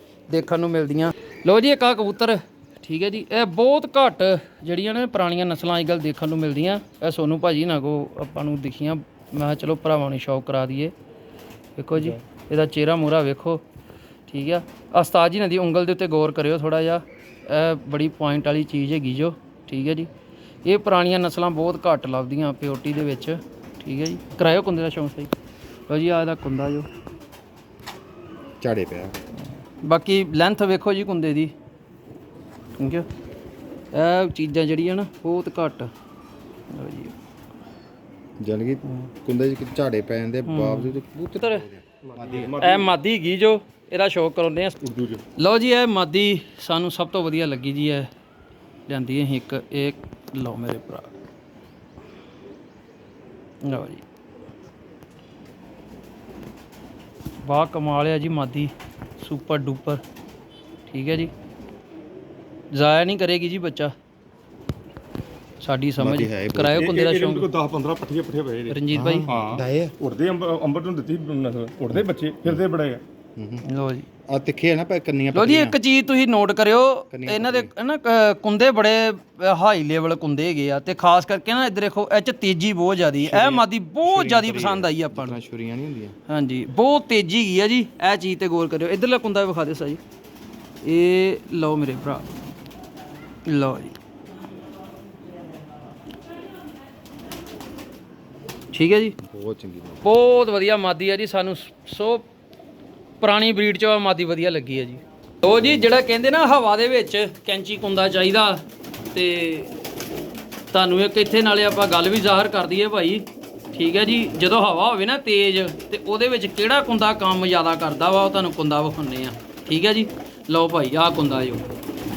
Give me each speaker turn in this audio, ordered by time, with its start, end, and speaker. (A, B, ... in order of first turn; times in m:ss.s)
0:00.3-0:10.9 A
0:11.8-0:13.6 A
0:14.3-0:20.1 A
0:20.6-0:25.3 A
0:25.9-0:26.9 A
0:28.6-0:29.2 B
0:29.8-0:31.5 A
0:32.8-0:33.0 A
0:33.9-0:35.9 A
0:36.7-0:37.1 A
0:38.4-0:42.8 B
0:40.4-0:41.6 A
0:42.0-0:43.0 C
0:42.6-0:44.8 A
0:44.8-0:45.2 C
0:45.4-0:48.1 A
0:48.9-0:51.1 A
0:53.6-0:54.0 A
0:57.4-1:00.0 A
1:00.9-1:01.3 A
1:02.7-1:03.9 A
1:05.6-1:07.5 A
1:06.0-1:06.9 B
1:06.8-1:13.0 C
1:08.7-1:09.3 A
1:08.9-1:10.0 B
1:13.4-1:13.6 B
1:13.6-1:14.1 A
1:14.3-1:15.8 B
1:15.3-1:25.4 A
1:17.1-1:17.7 B
1:23.2-1:26.2 B
1:26.3-1:30.0 A
1:30.8-1:32.2 A
1:33.4-1:33.9 A
1:38.7-1:39.2 A
1:39.2-1:40.1 B
1:40.0-1:42.2 A
1:43.2-1:48.6 A
1:45.4-1:45.9 B
1:49.1-1:49.7 A
1:50.7-2:01.6 A